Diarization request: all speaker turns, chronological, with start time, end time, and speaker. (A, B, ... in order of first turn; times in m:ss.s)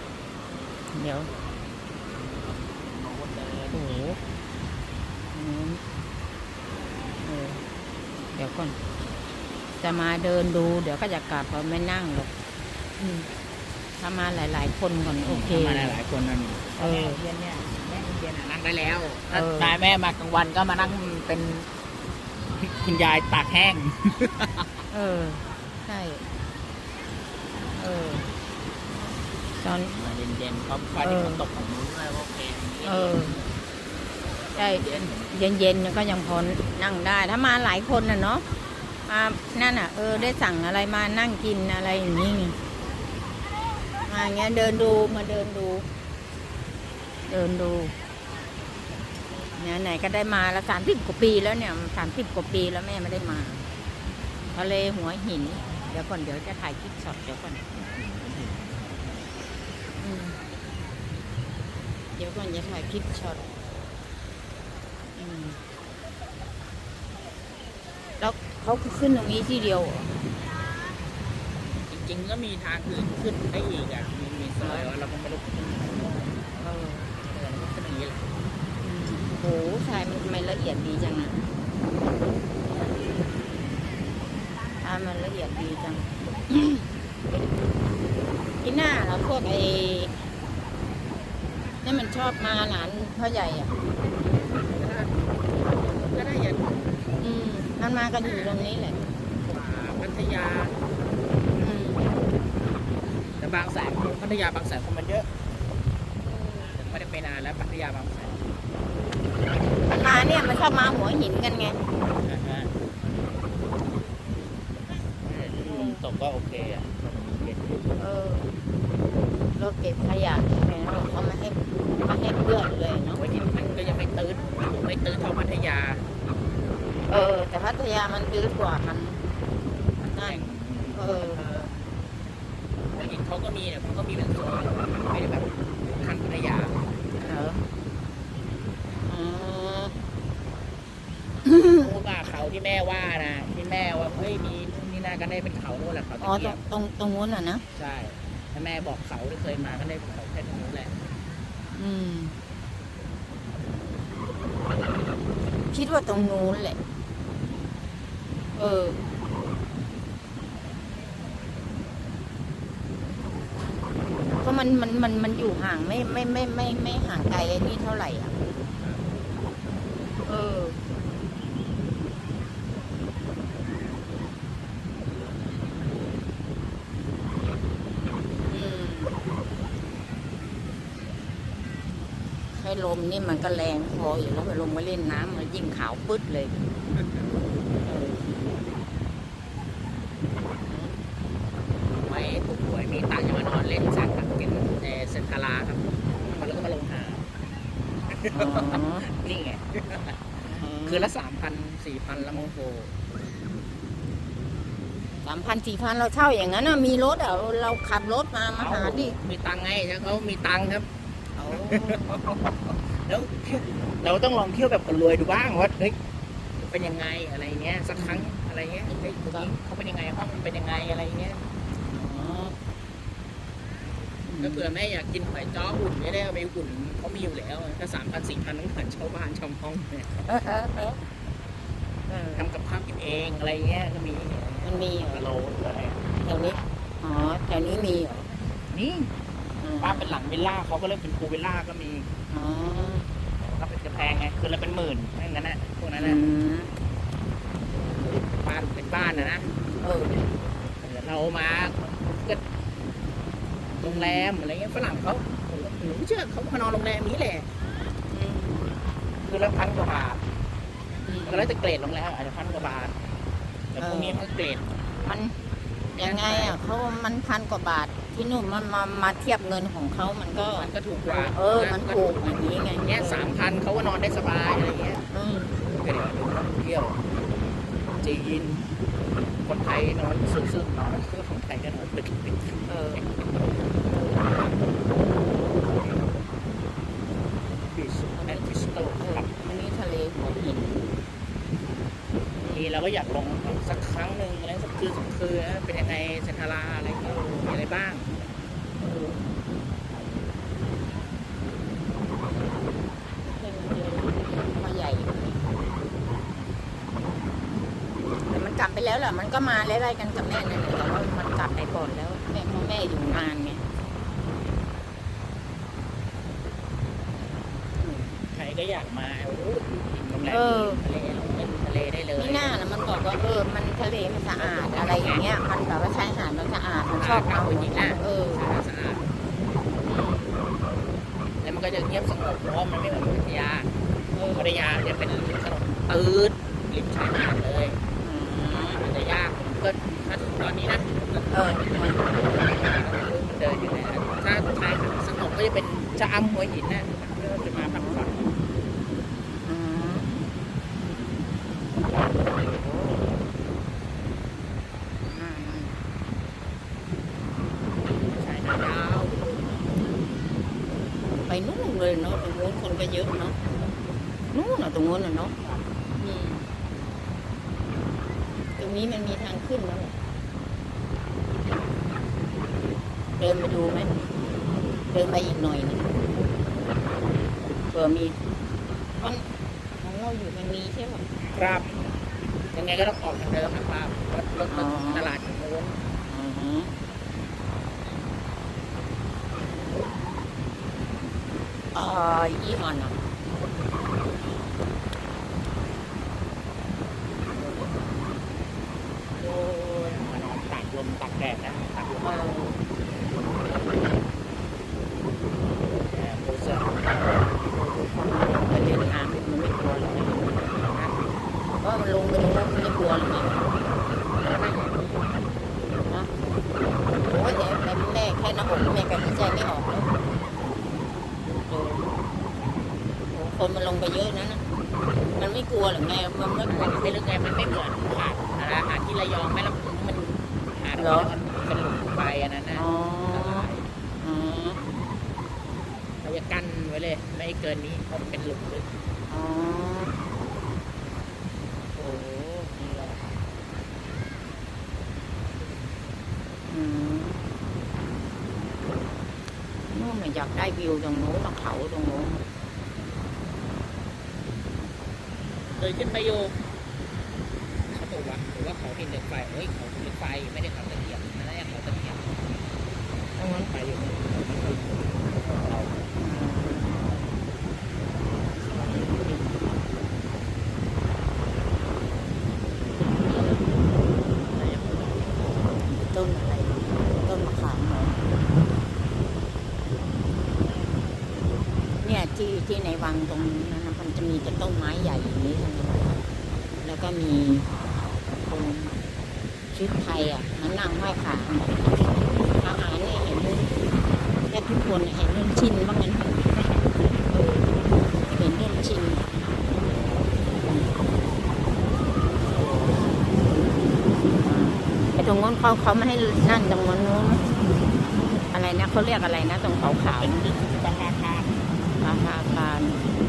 0:00.9-0:01.3 A
0:02.1-0:04.4 B
0:03.7-0:04.2 A
0:05.3-0:05.8 A
0:07.2-0:07.6 A
0:08.3-0:08.8 A
0:09.8-0:12.3 A
0:13.0-0:13.3 A
0:14.0-0:16.0 A
0:15.2-0:21.7 B
0:16.8-0:17.2 A
0:19.3-0:19.8 A
0:22.6-0:24.8 B
0:24.9-0:26.2 A
0:27.7-0:28.2 A
0:29.6-0:29.9 A
0:29.9-0:33.5 B
0:31.0-0:31.4 A
0:32.8-0:33.4 A
0:34.4-0:35.4 B
0:34.6-0:38.4 A
0:39.1-0:42.6 A
0:40.1-0:40.4 B
0:44.0-0:45.8 A
0:47.3-0:47.9 A
0:49.5-0:53.6 A
0:54.5-0:57.6 A
0:57.7-0:59.2 B
1:00.0-1:00.4 A
1:02.2-1:03.4 A
1:05.2-1:05.6 A
1:08.2-1:10.1 A
1:11.8-1:16.5 B
1:14.6-1:14.9 A
1:16.6-1:17.1 A
1:17.2-1:18.2 B
1:18.8-1:21.5 A
1:24.8-1:26.8 A
1:28.6-1:30.1 A
1:31.8-1:33.7 A
1:34.2-1:35.1 B
1:35.9-1:36.9 B
1:37.2-1:39.0 A
1:38.2-1:38.7 B
1:39.3-1:40.7 B
1:41.5-1:42.1 A
1:43.4-1:45.3 B
1:46.2-1:46.7 A
1:46.7-1:48.4 B
1:49.9-1:51.8 A
1:52.2-1:52.7 B
1:55.2-1:57.9 B
1:55.7-1:56.0 A
1:58.0-1:58.5 A
1:59.5-2:03.2 A
2:03.1-2:06.0 B
2:07.1-2:09.2 A
2:10.1-2:11.4 A
2:10.2-2:11.8 B
2:12.9-2:16.8 B
2:17.2-2:17.6 A
2:19.1-2:19.9 A
2:21.4-2:21.9 A
2:21.8-2:26.6 B
2:26.2-2:27.6 A
2:27.7-2:30.9 B
2:31.7-2:32.3 A
2:35.7-2:36.8 A
2:38.6-2:39.0 A
2:44.4-2:48.3 A
2:50.2-2:50.8 A
2:58.5-2:59.1 A
3:02.5-3:06.5 A
3:06.9-3:07.2 B
3:07.8-3:08.3 A
3:10.6-3:11.0 A
3:12.0-3:17.2 B
3:18.1-3:20.2 B
3:18.3-3:19.0 A
3:20.4-3:21.1 A
3:20.8-3:22.9 B
3:22.1-3:22.5 A
3:25.2-3:29.2 A
3:28.6-3:30.9 B
3:31.3-3:32.1 A
3:31.5-3:36.0 B
3:36.6-3:41.4 B
3:38.0-3:38.3 A
3:38.9-3:39.5 A
3:41.8-3:42.5 A
3:44.2-3:44.7 A
3:44.4-3:50.2 B
3:50.2-3:51.0 A
3:52.1-3:52.5 A
3:52.3-3:56.2 B
3:54.6-3:55.3 A
3:56.2-3:58.3 A
3:58.7-3:59.1 B
3:59.6-4:00.2 A
3:59.8-4:02.1 B
4:02.3-4:03.0 A
4:03.4-4:06.2 B
4:06.0-4:06.7 A
4:08.0-4:09.5 B
4:09.8-4:10.2 A
4:10.8-4:12.4 B
4:13.8-4:14.3 A
4:13.8-4:17.4 B
4:18.1-4:18.7 A
4:19.2-4:20.2 B
4:21.0-4:21.5 A
4:21.2-4:23.0 B
4:23.7-4:24.7 B
4:23.8-4:24.2 A
4:25.0-4:25.4 A
4:26.0-4:26.6 B
4:26.0-4:33.4 A
4:30.5-4:35.0 B
4:35.1-4:35.5 A
4:35.6-4:37.0 B
4:37.9-4:38.2 A
4:38.0-4:38.6 B
4:39.4-4:43.1 B
4:42.7-4:43.1 A
4:43.8-4:44.4 A
4:45.0-4:45.5 A
4:45.7-4:46.0 B
4:47.5-4:49.6 B
4:48.2-4:50.8 A
4:52.4-4:52.8 A
4:52.4-4:58.1 B
4:57.0-4:57.5 A
4:58.8-4:59.2 A
5:03.2-5:05.4 A
5:08.2-5:13.6 A
5:17.8-5:18.1 A
5:18.3-5:23.0 B
5:20.2-5:20.8 A
5:22.2-5:28.5 A
5:24.4-5:25.2 B
5:26.9-5:29.1 B
5:29.8-5:30.3 A
5:31.4-5:33.7 B
5:34.1-5:34.6 A
5:34.3-5:37.8 B
5:38.0-5:38.8 A
5:38.5-5:41.3 B
5:41.3-5:42.0 A
5:42.1-5:48.3 B
5:47.6-5:48.0 A
5:49.4-5:50.1 A
5:52.4-5:53.0 A
5:55.1-5:55.7 A
5:58.1-5:59.6 B
6:01.1-6:03.4 A
6:04.3-6:05.3 A
6:05.4-6:05.7 B
6:06.0-6:06.5 A
6:08.6-6:09.9 A
6:13.2-6:13.9 A
6:14.9-6:15.9 A
6:17.7-6:18.2 A
6:19.0-6:19.2 A
6:19.8-6:21.0 A
6:21.3-6:21.7 B
6:22.5-6:25.8 B
6:24.5-6:25.1 A
6:26.0-6:26.7 A
6:31.7-6:33.0 A
6:37.4-6:37.8 A
6:39.2-6:42.1 B
6:42.0-6:42.6 A
6:45.8-6:47.7 B
6:47.8-6:51.0 A
6:51.6-6:53.4 A
6:54.2-6:55.2 B
6:56.9-6:59.9 A
7:01.4-7:01.9 A
7:03.1-7:04.4 A
7:05.1-7:07.0 A
7:06.4-7:13.7 B
7:10.7-7:11.1 A
7:12.5-7:13.5 A
7:14.0-7:14.6 A
7:16.0-7:18.6 B
7:19.1-7:19.9 A
7:21.7-7:23.0 B
7:26.5-7:27.2 A
7:29.7-7:32.2 A
7:35.6-7:36.4 B
7:37.7-7:42.0 B
7:43.2-7:43.5 A
7:43.5-7:45.8 B
7:45.9-7:46.9 A
7:48.3-7:49.4 A
7:53.0-7:53.5 B
7:54.1-7:55.4 B
7:55.6-7:58.0 A
8:01.8-8:06.0 A
8:06.6-8:07.5 A
8:08.2-8:08.8 A
8:09.5-8:11.6 A
8:12.4-8:13.5 A
8:14.3-8:19.0 A
8:20.4-8:20.7 A
8:22.3-8:22.7 A
8:24.1-8:27.2 A
8:28.3-8:30.2 A
8:29.8-8:31.4 B
8:31.8-8:32.8 A